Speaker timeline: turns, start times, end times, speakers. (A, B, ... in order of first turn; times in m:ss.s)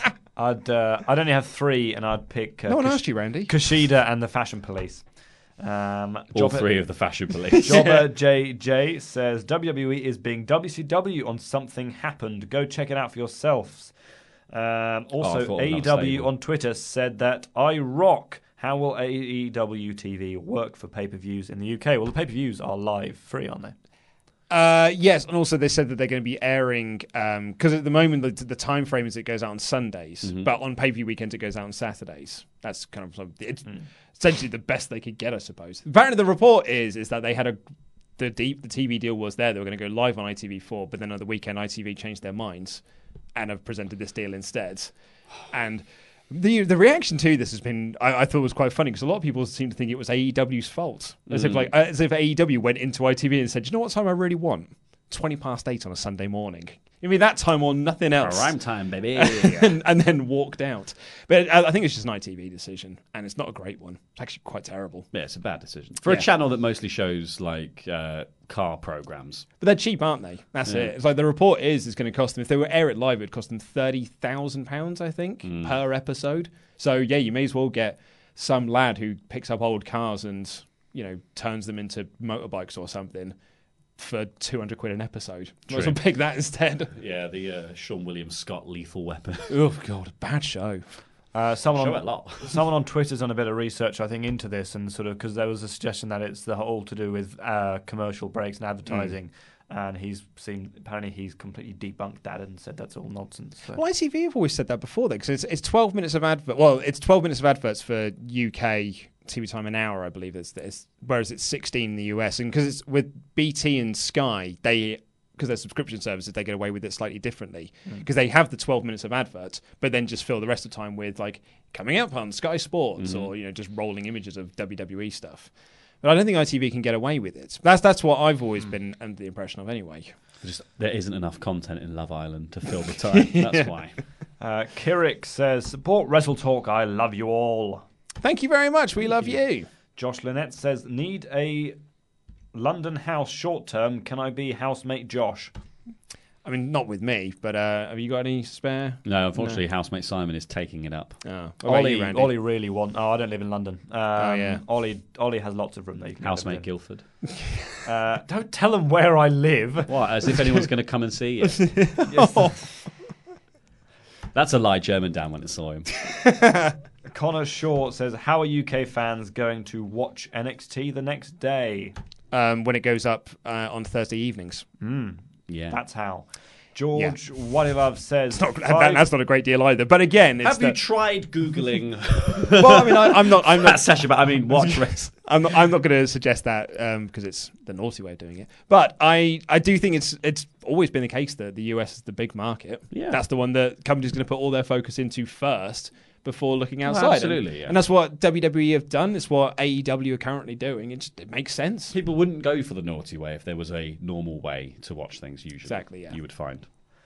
0:00.4-0:23.8 A
0:02.7-0:03.5 B
0:06.3-0:07.9 C
0:15.2-0:16.3 C
0:24.5-0:37.6 B
0:30.2-0:30.5 C
0:38.2-0:42.8 B
0:43.4-0:45.0 B
0:45.5-1:05.1 B
0:51.3-0:51.7 C
0:58.2-0:59.8 C
1:05.1-1:09.5 C
1:06.0-1:06.3 B
1:09.6-1:23.4 B
1:10.6-1:10.9 C
1:15.4-1:15.8 C
1:24.0-1:26.9 B
1:25.7-1:26.0 C
1:27.0-1:29.5 C
1:29.5-1:31.0 B
1:31.3-1:43.8 A
1:31.8-1:32.6 C
1:38.9-1:39.2 C
1:43.8-2:10.1 B
2:03.0-2:03.3 C
2:10.4-2:14.1 C
2:13.2-2:13.7 B
2:14.4-2:17.8 A
2:18.2-2:19.7 B
2:19.9-2:21.8 A
2:22.5-2:25.5 A
2:26.4-2:29.6 B
2:29.0-2:31.3 C
2:31.2-2:32.3 B
2:31.6-2:36.9 A
2:34.2-2:34.6 B
2:36.2-2:37.3 C
2:37.8-2:40.2 A
2:39.9-2:42.0 C
2:41.7-2:42.7 B
2:42.0-2:42.8 A
2:44.3-2:46.1 C
2:46.4-2:46.7 B
2:47.0-2:52.0 A
2:52.3-2:54.7 B
2:54.8-2:59.1 A
2:55.5-2:55.8 C
2:58.3-3:00.8 B
3:00.4-3:05.3 C
3:02.5-3:22.0 B
3:12.9-3:13.2 C
3:16.8-3:17.8 C
3:21.9-3:26.7 C
3:25.7-3:26.2 B